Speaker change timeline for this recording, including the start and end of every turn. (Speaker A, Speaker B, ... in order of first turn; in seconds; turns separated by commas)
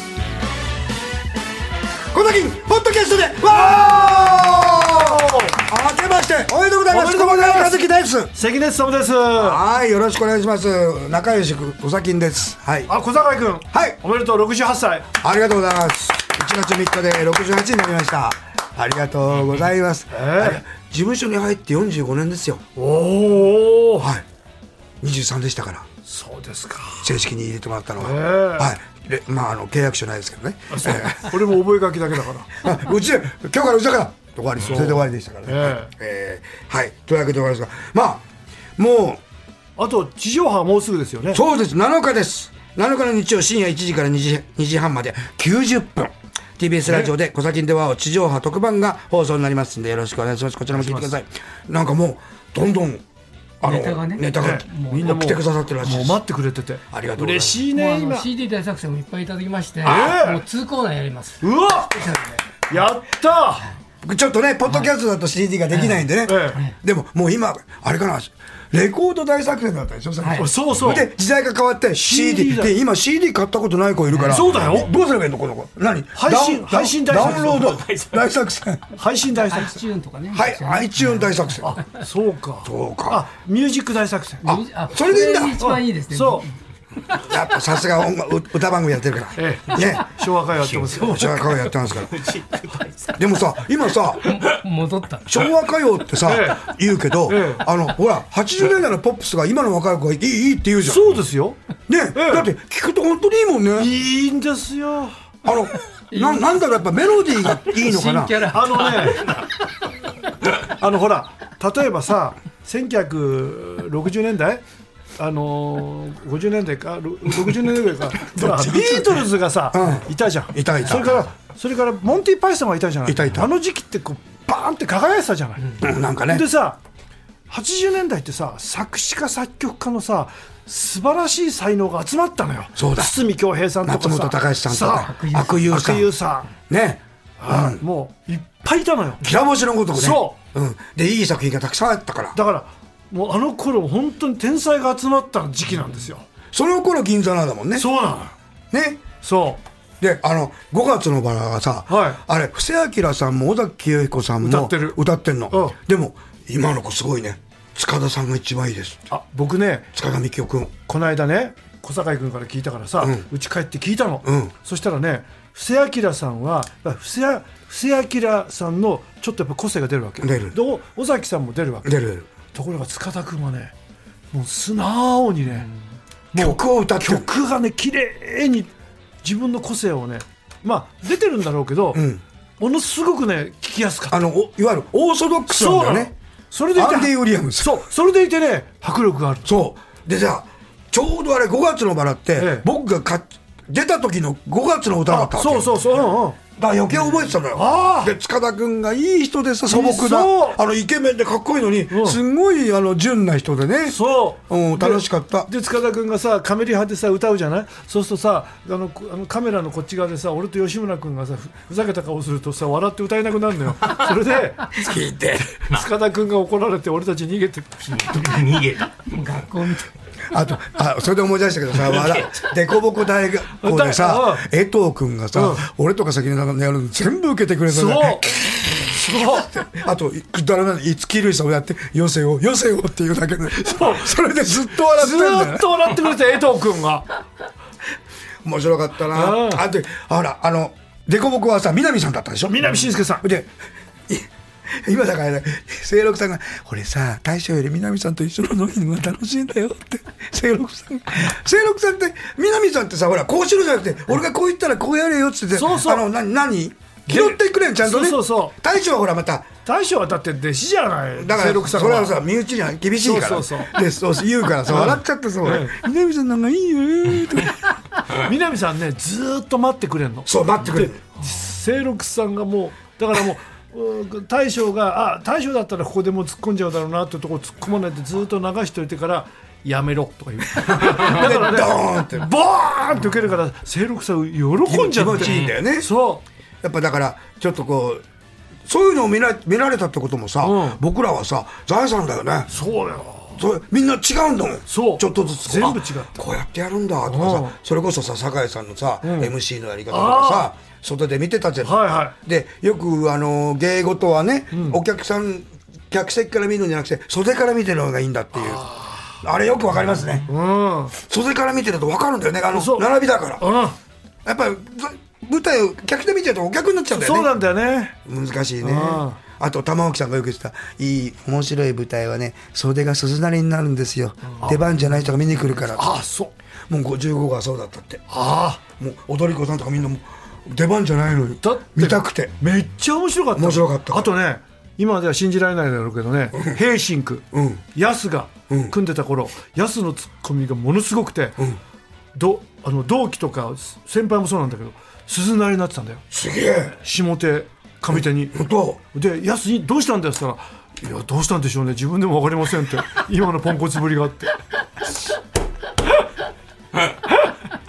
Speaker A: 2.1-8.3, Speaker B: 3.6-5.6, Speaker B: 6.9-7.8, Speaker B: 8.3-9.6, Speaker A: 9.3-12.9, Speaker B: 12.9-15.1, Speaker A: 13.7-14.0, Speaker A: 15.2-22.6, Speaker B: 20.1-20.6, Speaker B: 22.8-24.1, Speaker A: 24.0-24.2, Speaker A: 25.0-25.9, Speaker B: 26.0-27.1, Speaker A: 27.0-31.4, Speaker B: 28.0-28.7, Speaker B: 30.7-32.5, Speaker A: 32.6-38.2, Speaker B: 34.7-35.9, Speaker A: 38.8-39.2, Speaker B: 39.8-41.4, Speaker A: 41.3-53.0, Speaker B: 50.7-51.1, Speaker A: 53.6-56.2, Speaker C: 53.6-55.2, Speaker B: 54.4-58.3, Speaker A: 56.9-57.6, Speaker C: 57.7-62.6, Speaker B: 59.8-60.4, Speaker B: 61.4-61.9, Speaker B: 62.7-63.7, Speaker A: 64.0-78.8, Speaker C: 65.7-66.0, Speaker B: 66.2-66.6, Speaker C: 70.2-70.5, Speaker B: 70.3-71.1, Speaker B: 72.0-72.8, Speaker B: 74.2-74.9, Speaker B: 76.1-77.7, Speaker D: 77.2-78.2, Speaker B: 78.9-79.8, Speaker C: 79.3-81.4, Speaker A: 80.3-81.8, Speaker B: 81.6-84.6, Speaker A: 82.6-83.2, Speaker A: 84.4-85.6, Speaker C: 84.4-86.5, Speaker B: 85.6-86.5, Speaker A: 87.1-90.1, Speaker B: 89.3-91.5, Speaker D: 90.6-91.0, Speaker A: 90.9-92.3, Speaker D: 91.9-93.2, Speaker A: 93.2-94.5, Speaker C: 94.2-95.4, Speaker A: 95.3-101.2, Speaker B: 96.2-96.7, Speaker B: 97.2-97.7, Speaker B: 100.8-101.6, Speaker A: 101.9-103.9, Speaker B: 102.1-102.5, Speaker B: 103.8-105.1, Speaker A: 105.4-108.5, Speaker C: 106.1-106.6, Speaker C: 107.6-109.4, Speaker B: 108.5-109.4, Speaker B: 110.6-114.6, Speaker B: 115.2-126.8, Speaker A: 118.2-121.3, Speaker A: 123.0-123.5, Speaker A: 125.8-126.5, Speaker B: 127.5-136.5, Speaker A: 132.8-133.1, Speaker A: 133.8-137.8, Speaker C: 134.9-135.7, Speaker B: 137.4-139.2, Speaker A: 139.2-142.4, Speaker B: 139.9-140.4, Speaker B: 142.3-146.2, Speaker A: 146.5-147.9, Speaker B: 147.7-148.3, Speaker A: 148.7-149.0, Speaker B: 149.2-149.6, Speaker A: 150.0-159.1, Speaker B: 151.9-152.2, Speaker B: 154.4-155.8, Speaker B: 159.1-159.9, Speaker A: 159.9-160.7, Speaker B: 160.8-172.0, Speaker A: 164.2-164.5, Speaker A: 170.2-170.6, Speaker A: 171.8-172.3, Speaker B: 172.5-173.7, Speaker B: 174.3-175.7, Speaker B: 176.3-178.7, Speaker A: 176.3-177.2, Speaker B: 179.2-182.0, Speaker A: 181.9-182.2, Speaker B: 182.6-184.2, Speaker A: 184.1-186.1, Speaker B: 185.5-189.5, Speaker A: 186.7-187.8, Speaker A: 189.4-195.8, Speaker B: 192.4-192.7, Speaker B: 195.1-196.4, Speaker A: 196.6-205.5, Speaker B: 197.1-198.1, Speaker B: 199.7-200.6, Speaker B: 201.9-202.2, Speaker B: 203.8-214.8, Speaker A: 214.7-215.7, Speaker B: 215.7-218.0, Speaker D: 217.8-219.0, Speaker C: 219.1-219.9, Speaker A: 220.3-235.9, Speaker B: 223.6-224.5, Speaker B: 225.3-225.7, Speaker B: 227.7-229.5, Speaker B: 233.5-234.2, Speaker B: 234.7-237.1, Speaker A: 238.4-243.5, Speaker B: 239.1-239.6, Speaker B: 242.4-243.2, Speaker A: 244.1-259.5, Speaker B: 255.5-256.0, Speaker B: 257.1-258.5, Speaker B: 259.6-262.2, Speaker A: 261.1-267.8, Speaker B: 263.0-263.7, Speaker B: 264.7-265.8, Speaker B: 268.1-286.2, Speaker A: 270.2-271.0, Speaker A: 280.6-282.3, Speaker A: 284.6-285.9, Speaker A: 286.6-288.0, Speaker A: 288.6-292.5, Speaker B: 290.4-290.8, Speaker B: 292.5-293.4, Speaker A: 293.3-308.6, Speaker B: 294.7-296.1, Speaker B: 297.1-297.6, Speaker B: 299.0-299.3, Speaker B: 299.9-300.5, Speaker B: 301.6-302.1, Speaker B: 304.5-304.8, Speaker B: 308.4-309.2, Speaker A: 309.2-310.3, Speaker B: 310.3-310.9, Speaker A: 310.9-313.4, Speaker B: 312.5-313.8, Speaker A: 314.2-317.3, Speaker B: 316.9-317.9, Speaker A: 318.0-325.9, Speaker B: 318.6-319.2, Speaker B: 324.4-324.7, Speaker B: 325.6-326.3, Speaker A: 326.7-328.0, Speaker B: 328.1-328.6, Speaker A: 328.8-332.3, Speaker B: 331.4-341.5, Speaker A: 333.3-334.1, Speaker A: 337.3-337.6, Speaker B: 342.1-346.0, Speaker A: 346.1-346.8, Speaker B: 346.8-348.3, Speaker A: 347.9-348.8, Speaker B: 348.9-354.3